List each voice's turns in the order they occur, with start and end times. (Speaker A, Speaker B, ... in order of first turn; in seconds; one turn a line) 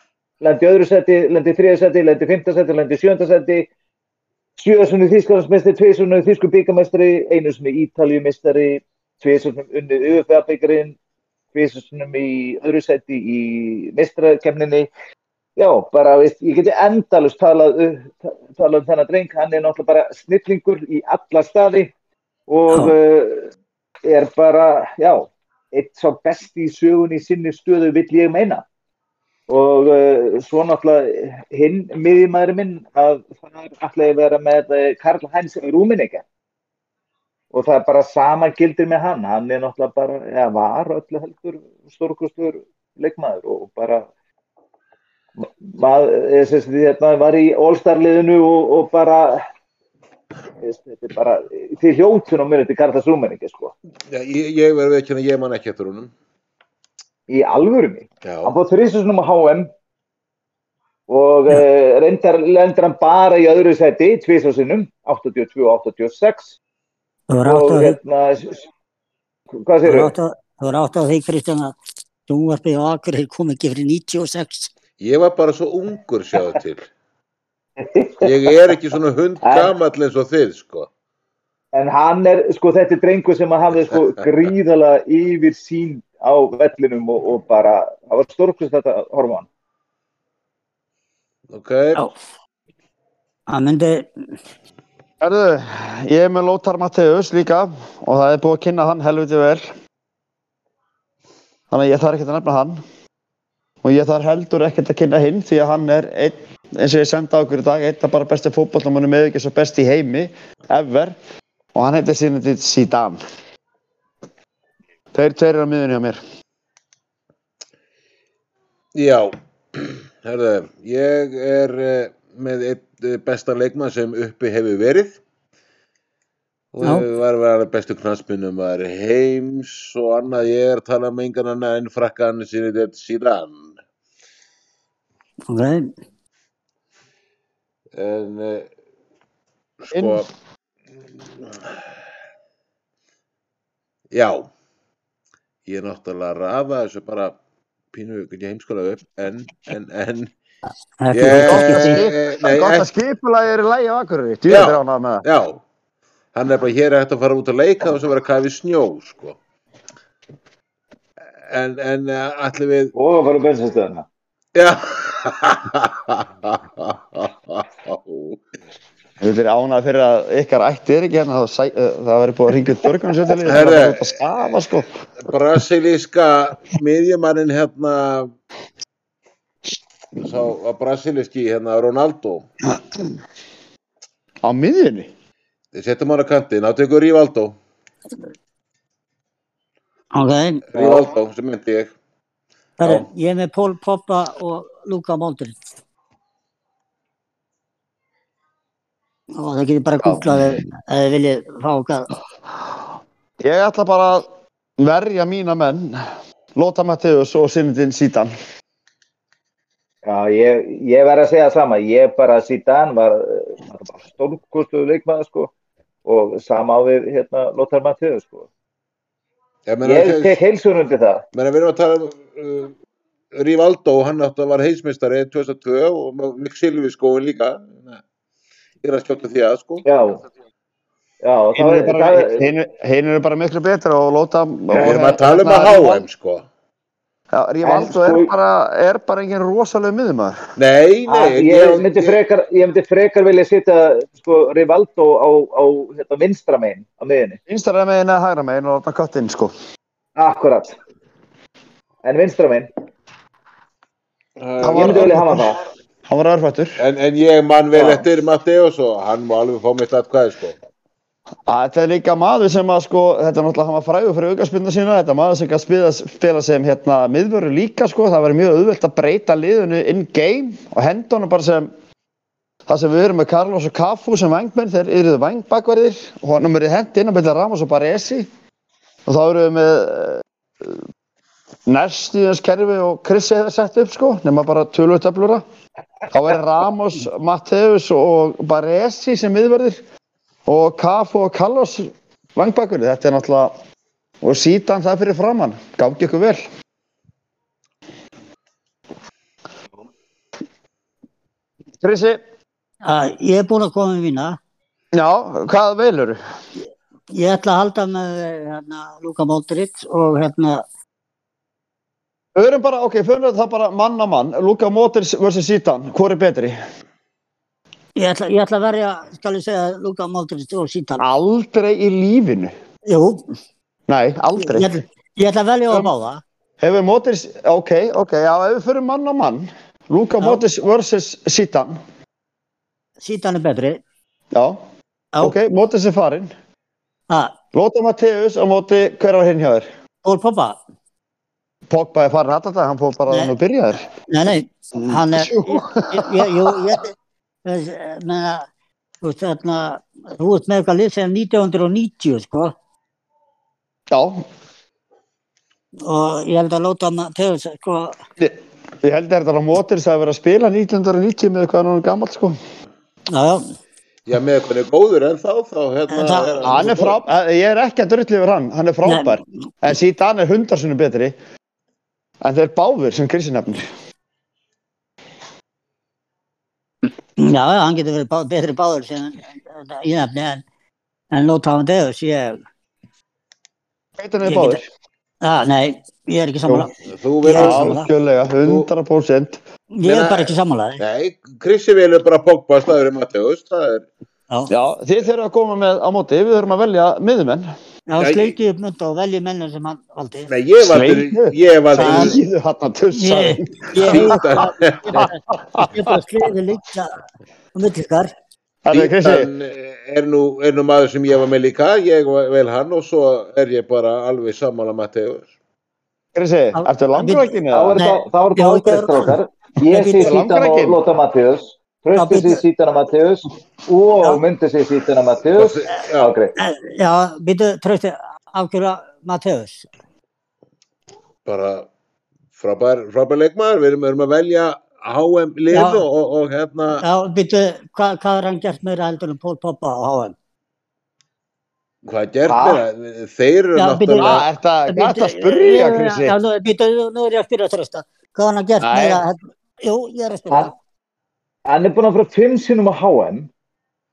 Speaker A: 0.4-3.7
Speaker A: 4.6-10.9
Speaker A: 11.5-14.9
Speaker A: 15.6-21.9
Speaker A: 22.5-23.5
Speaker B: 22.7-22.9
Speaker A: 24.1-28.6
Speaker A: 29.5-36.2
Speaker A: 37.5-44.1
Speaker A: 45.4-49.4
Speaker A: 50.6-53.7
Speaker C: 54.1-56.1
Speaker A: 57.3-59.7
Speaker C: 58.2-58.5
Speaker A: 61.1-66.5
Speaker B: 67.3-68.0
Speaker A: 67.4-68.7
Speaker A: 69.6-70.1
Speaker B: 69.8-71.8
Speaker B: 72.3-74.7
Speaker C: 75.0-76.9
Speaker A: 77.8-78.5
Speaker C: 78.2-80.9
Speaker A: 79.4-79.7
Speaker A: 81.7-89.5
Speaker C: 91.5-92.0
Speaker B: 93.5-94.1
Speaker D: 95.2-99.7
Speaker D: 101.7-102.8
Speaker D: 103.8-111.1
Speaker D: 111.8-113.2
Speaker D: 115.1-116.2
Speaker C: 118.9-125.2
Speaker C: 126.7-133.8
Speaker B: 135.5-135.9
Speaker C: 137.9-138.7
Speaker C: 139.8-140.3
Speaker D: 139.9-140.2
Speaker C: 144.1-144.5
Speaker C: 145.7-147.4
Speaker C: 147.9-150.3
Speaker B: 151.0-152.0
Speaker C: 151.1-152.9
Speaker D: 151.3-155.2
Speaker C: 154.5-155.6
Speaker C: 156.3-159.4
Speaker C: 161.5-162.9
Speaker A: 162.9-164.1
Speaker C: 164.6-168.4
Speaker D: 169.2-174.9
Speaker C: 173.4-174.1
Speaker C: 175.2-178.3
Speaker C: 180.2-182.5
Speaker D: 184.4-185.1
Speaker C: 185.7-187.6
Speaker B: 190.1-190.6
Speaker C: 190.7-191.9
Speaker A: 190.7-191.1
Speaker B: 192.8-195.6
Speaker B: 199.3-202.1
Speaker D: 200.0-200.6
Speaker D: 203.4-204.3
Speaker D: 204.8-208.3
Speaker A: 210.0-215.5
Speaker A: 216.1-218.5
Speaker C: 219.7-220.4
Speaker A: 219.8-221.2
Speaker C: 221.3-222.8
Speaker C: 223.3-228.0
Speaker C: 228.8-229.8
Speaker A: 229.8-230.2
Speaker A: 231.2-232.4
Speaker D: 231.6-236.1
Speaker C: 234.7-236.4
Speaker D: 237.3-240.4
Speaker A: 237.6-238.3
Speaker C: 240.6-242.2
Speaker A: 241.1-247.4
Speaker D: 247.5-249.5
Speaker A: 250.2-250.8
Speaker A: 252.0-252.7
Speaker C: 254.4-255.3
Speaker D: 254.6-255.6
Speaker A: 254.7-255.6
Speaker D: 256.1-256.8
Speaker C: 256.8-260.6
Speaker A: 257.7-258.1
Speaker D: 261.5-271.7
Speaker D: 272.7-278.3
Speaker D: 279.1-280.8
Speaker D: 281.7-285.4
Speaker D: 286.1-289.8
Speaker D: 290.5-293.5
Speaker D: 294.2-296.4
Speaker D: 301.8-302.2
Speaker B: 302.8-304.4
Speaker D: 304.9-306.2
Speaker B: 307.1-310.6
Speaker D: 312.4-316.6
Speaker B: 317.9-321.0
Speaker D: 321.0-322.5
Speaker B: 322.9-323.2
Speaker D: 323.9-324.7
Speaker B: 324.4-326.2
Speaker D: 326.6-331.8
Speaker B: 333.0-333.8
Speaker D: 334.3-334.6
Speaker D: 335.2-336.3
Speaker B: 337.1-337.4
Speaker D: 337.5-339.6
Speaker B: 340.0-340.6
Speaker D: 341.7-343.9
Speaker B: 344.1-348.5
Speaker D: 344.8-346.8
Speaker B: 349.0-352.5
Speaker D: 353.9-354.2
Speaker B: 355.8-357.9
Speaker D: 358.2-362.4
Speaker B: 363.1-363.5
Speaker C: 364.1-367.0
Speaker B: 365.9-366.4
Speaker D: 366.4-371.1
Speaker B: 368.9-369.2
Speaker D: 372.2-373.7
Speaker B: 377.2-380.4
Speaker B: 381.1-382.4
Speaker D: 384.0-384.6
Speaker B: 384.2-384.6
Speaker B: 385.2-386.7
Speaker C: 386.9-387.8
Speaker B: 387.2-387.9
Speaker D: 387.3-389.4
Speaker C: 388.4-388.7
Speaker B: 389.7-390.8
Speaker C: 389.9-393.9
Speaker D: 394.5-397.5
Speaker B: 397.9-400.3
Speaker C: 398.0-398.3
Speaker C: 400.3-402.2
Speaker D: 400.6-405.9
Speaker B: 401.8-402.1
Speaker B: 402.9-407.0
Speaker C: 403.9-405.1
Speaker B: 407.6-408.1
Speaker D: 408.6-409.3
Speaker C: 408.7-415.3
Speaker D: 416.1-417.8
Speaker B: 416.6-419.2
Speaker A: 417.5-426.3
Speaker B: 419.7-420.1
Speaker D: 419.8-420.8
Speaker B: 421.9-422.4
Speaker C: 425.3-426.1
Speaker B: 426.4-429.7
Speaker C: 431.3-431.7
Speaker C: 432.4-436.8
Speaker B: 435.5-435.9
Speaker B: 436.8-440.1
Speaker C: 441.9-444.2
Speaker A: 442.3-442.6
Speaker B: 443.6-450.5
Speaker D: 444.0-446.1
Speaker D: 448.6-449.0
Speaker A: 451.4-453.3